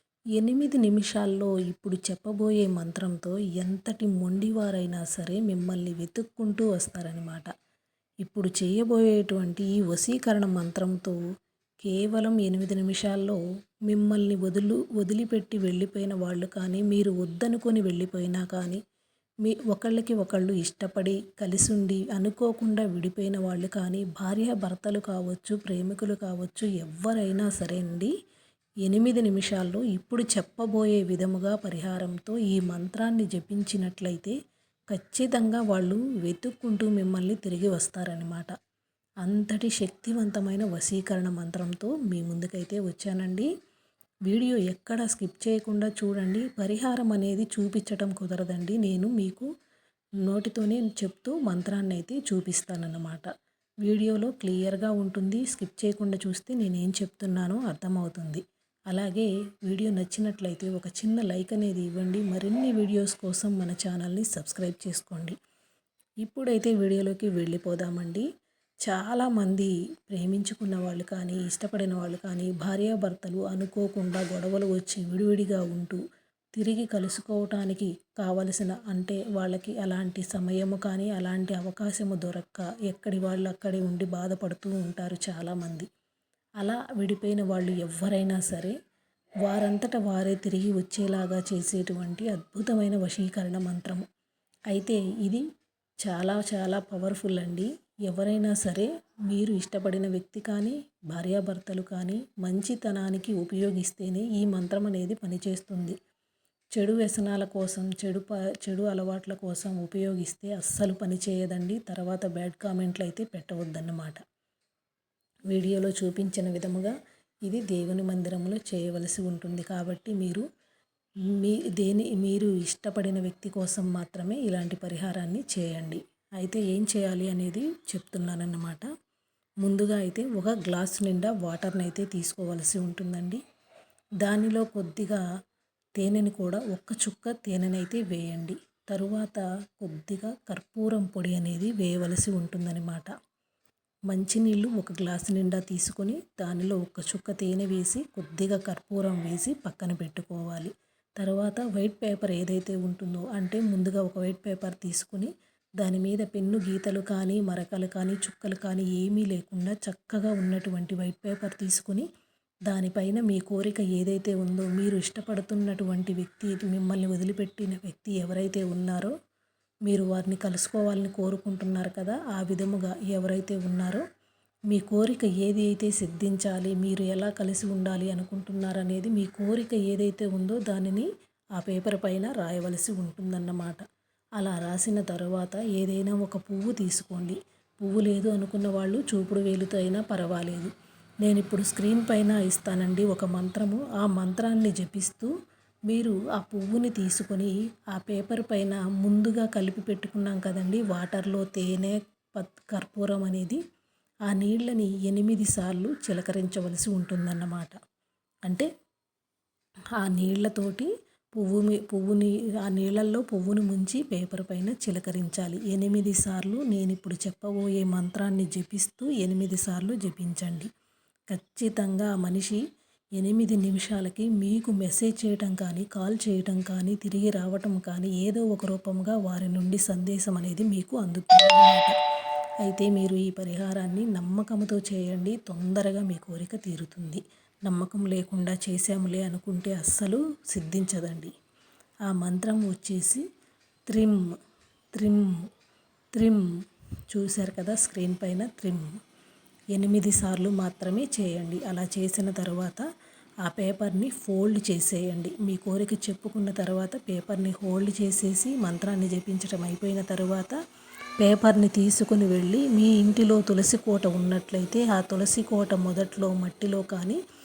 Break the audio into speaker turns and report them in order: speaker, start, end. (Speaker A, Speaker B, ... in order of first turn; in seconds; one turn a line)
Speaker A: 0.4-7.5
Speaker A: 8.2-11.2
Speaker A: 11.8-18.8
Speaker A: 19.4-28.1
Speaker A: 28.9-34.4
Speaker A: 34.9-38.5
Speaker A: 39.2-43.5
Speaker A: 44.3-49.5
Speaker A: 50.2-53.3
Speaker A: 53.8-65.4
Speaker A: 66.2-68.3
Speaker A: 68.9-76.0
Speaker A: 76.6-85.9
Speaker A: 86.6-88.8
Speaker A: 89.4-94.1
Speaker A: 94.7-95.4
Speaker A: 96.0-106.0
Speaker A: 106.8-114.2
Speaker A: 115.5-116.9
Speaker A: 117.5-120.4
Speaker A: 121.3-128.9
Speaker A: 129.6-133.4
Speaker A: 134.2-135.2
Speaker A: 136.0-143.1
Speaker A: 144.1-162.1
Speaker A: 162.7-169.1
Speaker A: 169.9-174.0
Speaker A: 174.7-183.8
Speaker A: 184.4-190.7
Speaker A: 191.2-195.3
Speaker A: 195.9-203.6
Speaker A: 204.3-207.8
Speaker A: 210.0-220.7
Speaker A: 221.3-222.6
Speaker A: 223.2-231.9
Speaker A: 232.6-241.3
Speaker A: 242.1-243.2
Speaker A: 243.9-244.2
Speaker A: 244.9-245.3
Speaker A: 246.2-246.4
Speaker A: 247.1-248.9
Speaker A: 249.7-252.8
Speaker A: 253.4-260.6
Speaker A: 261.2-267.2